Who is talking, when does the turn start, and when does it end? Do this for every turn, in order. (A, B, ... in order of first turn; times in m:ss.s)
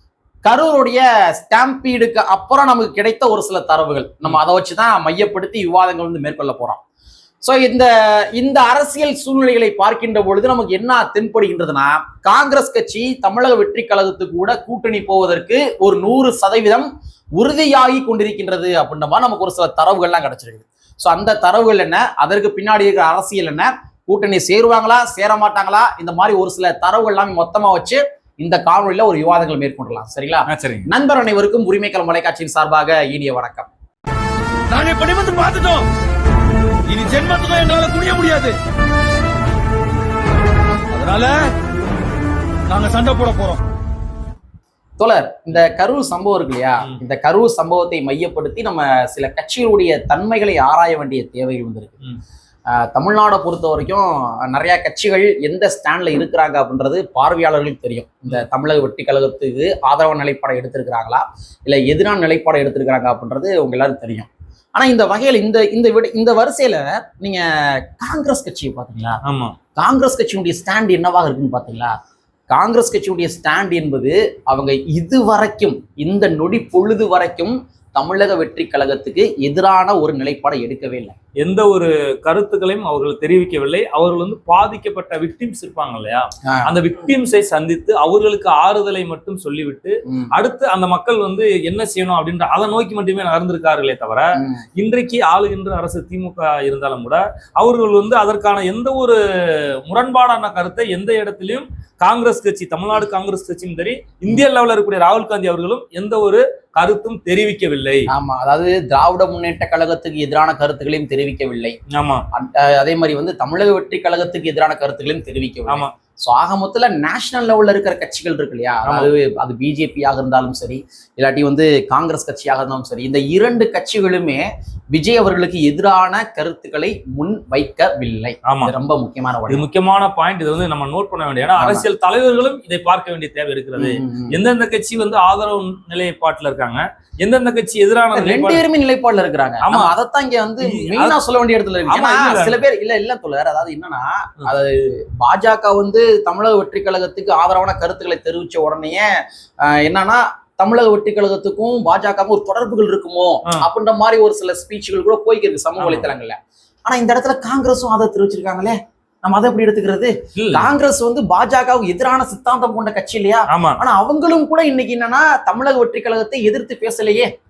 0:00.4-0:06.8 A
0:07.4-0:33.7 A
0:30.5-0:30.9 B
0:34.7-0:35.9 C
0:36.9-0:38.6 C
0:40.9-0:41.5 C
0:42.7-0:43.6 C
0:45.0-0:52.0 A
0:52.7-1:09.2 A
1:09.2-1:09.6 B
1:09.8-1:11.9 A
1:12.5-1:21.1 A
1:21.4-1:48.1 B
1:26.4-1:26.7 A
1:34.4-1:34.6 A
1:48.1-1:51.7 A
1:51.9-1:52.2 B
1:52.3-2:09.6 A
2:08.5-2:08.7 B
2:09.5-2:18.6 B
2:11.6-2:11.8 A
2:13.8-2:14.4 A
2:18.1-2:29.1 A
2:19.6-2:19.9 B
2:20.6-2:21.2 B
2:21.9-2:22.6 B
2:29.6-2:47.3 A
2:35.8-2:36.1 B
2:40.4-2:40.7 B
2:43.5-2:43.8 B